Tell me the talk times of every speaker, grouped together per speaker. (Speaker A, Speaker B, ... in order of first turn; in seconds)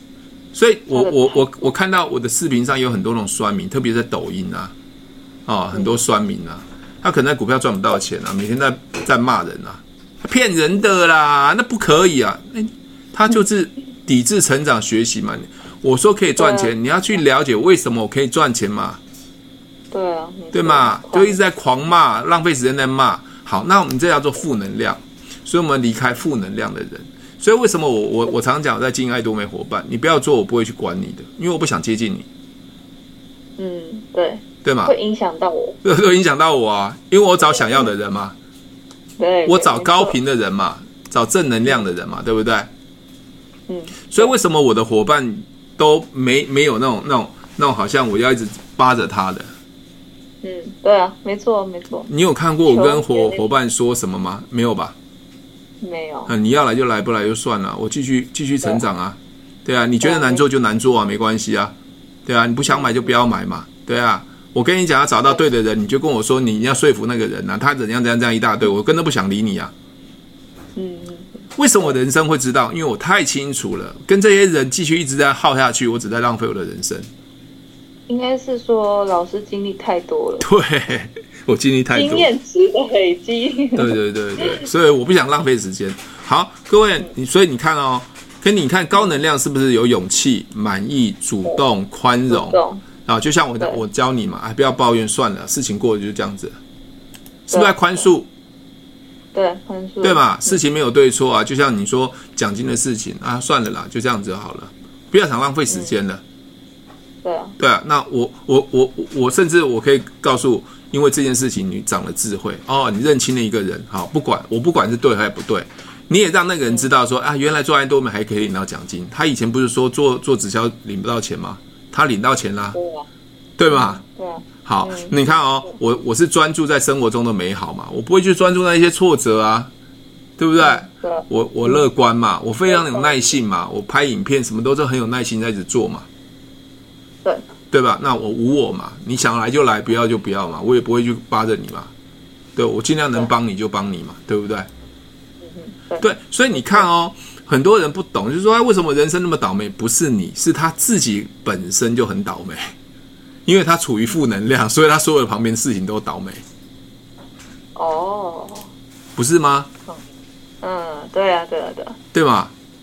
Speaker A: 0.5-4.7, 5.5-19.0, 20.5-32.2, 34.6-34.9, 35.8-38.3, 39.5-42.7, 44.1-49.5, 52.0-54.9, 56.3-61.7, 62.2-69.7, 71.5-77.1, 80.4-82.3, 83.7-96.5, 97.5-98.3, 100.0-106.2, 107.6-122.8, 123.6-124.0, 124.6-129.7, 130.4-136.1, 137.7-141.9, 142.6-144.7, 146.0-152.7, 153.4-156.4, 159.2-159.7, 162.1-162.5
Speaker B: 0.9-1.5, 5.7-6.0, 16.4-16.7, 19.9-21.4, 33.6-35.8, 37.5-37.9, 39.2-40.2, 43.7-44.3, 50.4-52.1, 52.6-53.4, 55.8-56.3, 60.0-60.4, 62.6-63.1, 70.7-71.9, 78.1-80.5, 81.9-84.6, 92.3-92.8, 97.5-98.1, 99.3-100.6, 105.7-106.0, 107.2-107.5, 122.7-123.1, 123.7-125.3, 130.6-131.8, 132.7-133.3, 145.4-146.8, 157.7-158.7, 160.6-162.0